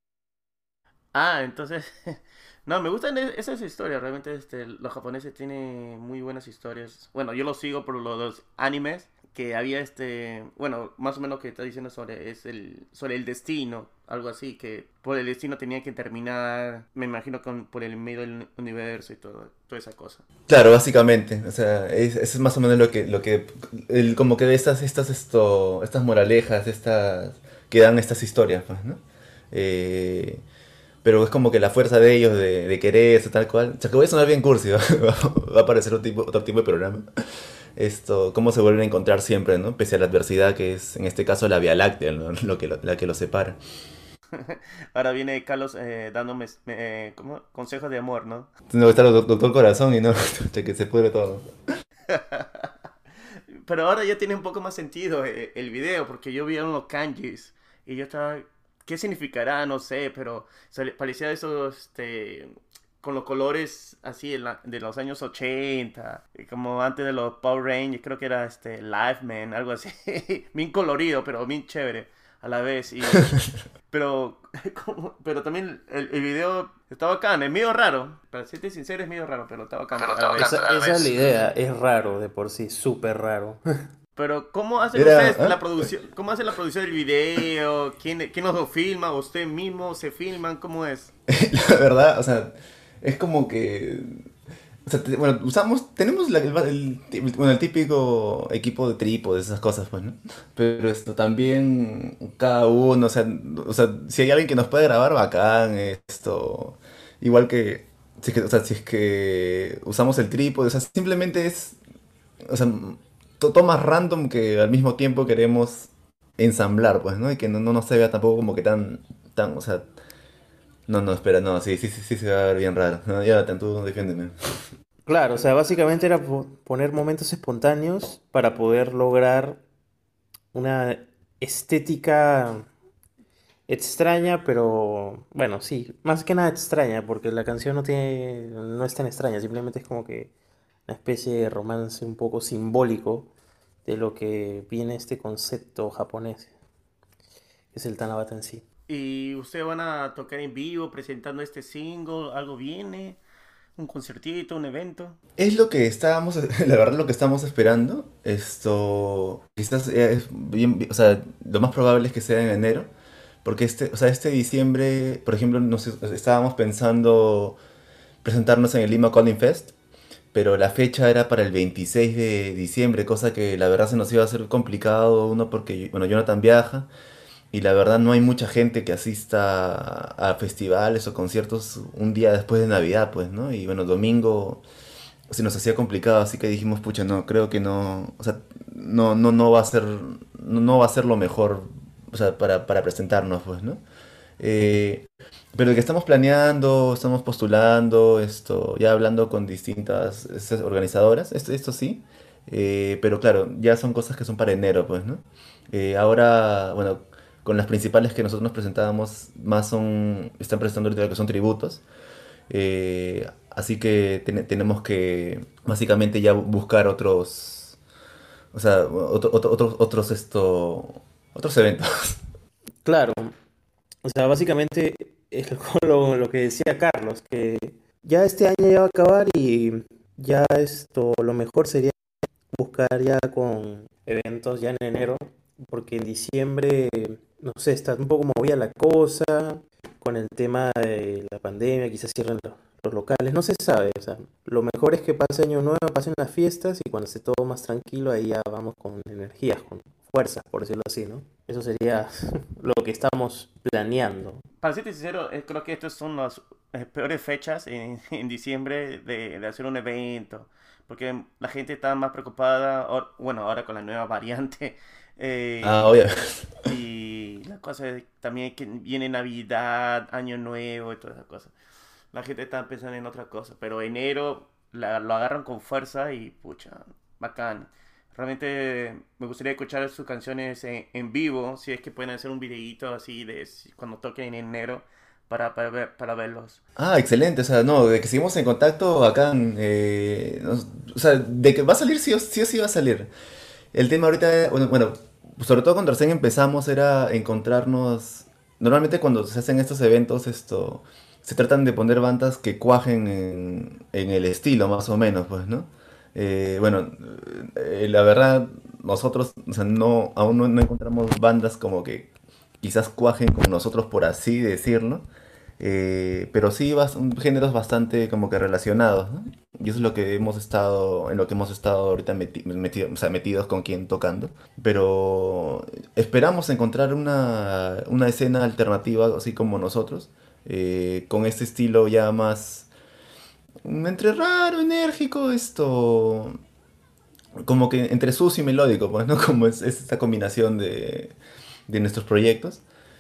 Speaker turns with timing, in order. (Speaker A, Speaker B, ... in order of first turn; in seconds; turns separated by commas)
Speaker A: 1.1-20.2, Speaker B: 20.5-29.0, Speaker B: 29.5-30.4, Speaker B: 31.0-37.1, Speaker B: 37.8-43.6, Speaker A: 44.3-48.5, Speaker B: 48.7-51.5, Speaker A: 52.1-52.7, Speaker A: 53.5-73.3, Speaker B: 73.2-73.5, Speaker A: 73.9-80.9, Speaker C: 80.3-83.6, Speaker A: 84.2-91.1, Speaker B: 84.9-85.9, Speaker B: 91.3-94.3, Speaker B: 94.9-111.8, Speaker B: 112.5-119.9, Speaker B: 120.9-124.3, Speaker C: 125.1-129.6, Speaker C: 130.5-132.7, Speaker C: 133.7-140.3, Speaker C: 140.9-143.3, Speaker C: 143.8-146.5, Speaker C: 147.7-148.6, Speaker A: 148.9-153.2, Speaker A: 153.8-155.2, Speaker B: 155.4-162.9, Speaker B: 163.4-167.6, Speaker B: 168.2-169.7, Speaker B: 170.3-176.9, Speaker B: 177.5-184.6, Speaker B: 185.3-193.8, Speaker B: 194.4-211.8, Speaker B: 212.5-217.8, Speaker B: 218.5-222.2, Speaker C: 222.8-223.3, Speaker C: 224.0-231.9, Speaker C: 232.5-254.4, Speaker A: 254.6-266.0, Speaker B: 265.6-266.5, Speaker A: 266.6-271.5, Speaker A: 272.1-286.6, Speaker B: 286.8-293.1, Speaker B: 293.7-315.1, Speaker B: 315.6-332.7, Speaker B: 333.6-336.4, Speaker B: 337.4-341.1, Speaker B: 341.7-342.6